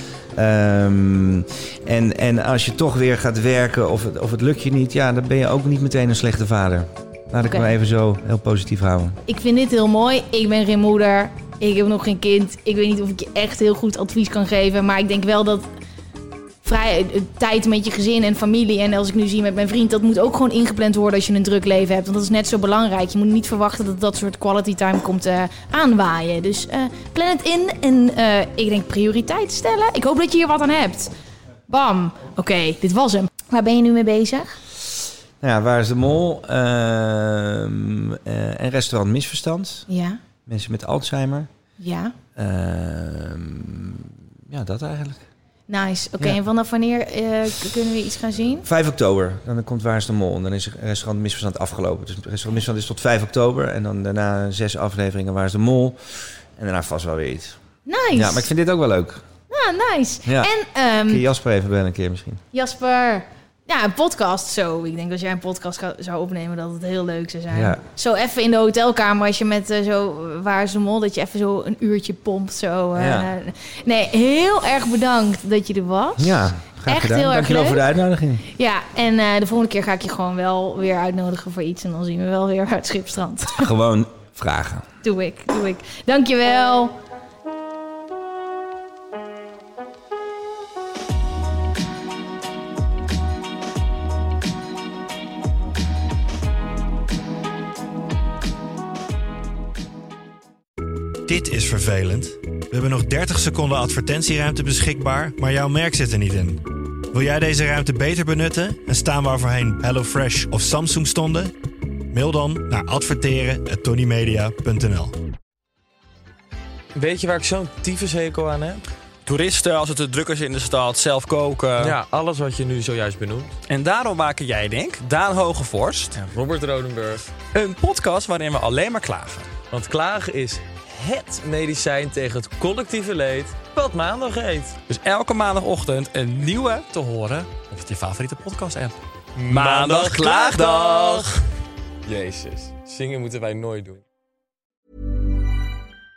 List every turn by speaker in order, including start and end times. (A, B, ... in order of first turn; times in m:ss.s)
0:00.3-0:09.2 A
0:07.4-0:07.7 B
0:09.3-0:15.6 B
0:16.6-0:31.1 B
0:31.7-0:34.6 B
0:35.4-0:39.9 A
0:39.9-0:40.2 B
0:40.4-0:41.5 A
0:41.8-0:42.1 B
0:42.4-0:45.2 A
0:45.7-0:48.6 B
0:48.6-0:57.6 A
0:57.8-0:58.5 B
0:58.1-0:59.2 A
0:59.5-1:01.2 B
1:01.1-1:02.4 A
1:02.5-1:17.8 B
1:07.5-1:07.8 A
1:12.9-1:13.3 A
1:16.2-1:18.4 A
1:18.4-1:23.7 B
1:23.5-1:24.8 A
1:25.0-1:26.9 B
1:41.3-1:51.5 C
1:52.1-1:55.1 C
1:56.9-1:58.8 D
1:59.2-2:02.0 E
2:01.8-2:03.5 D
2:03.7-2:06.3 E
2:06.2-2:07.3 D
2:07.5-2:09.5 E
2:09.7-2:14.8 D
2:14.9-2:19.0 E
2:16.9-2:17.4 D
2:19.4-2:21.3 D
2:19.5-2:21.3 E
2:22.0-2:24.0 D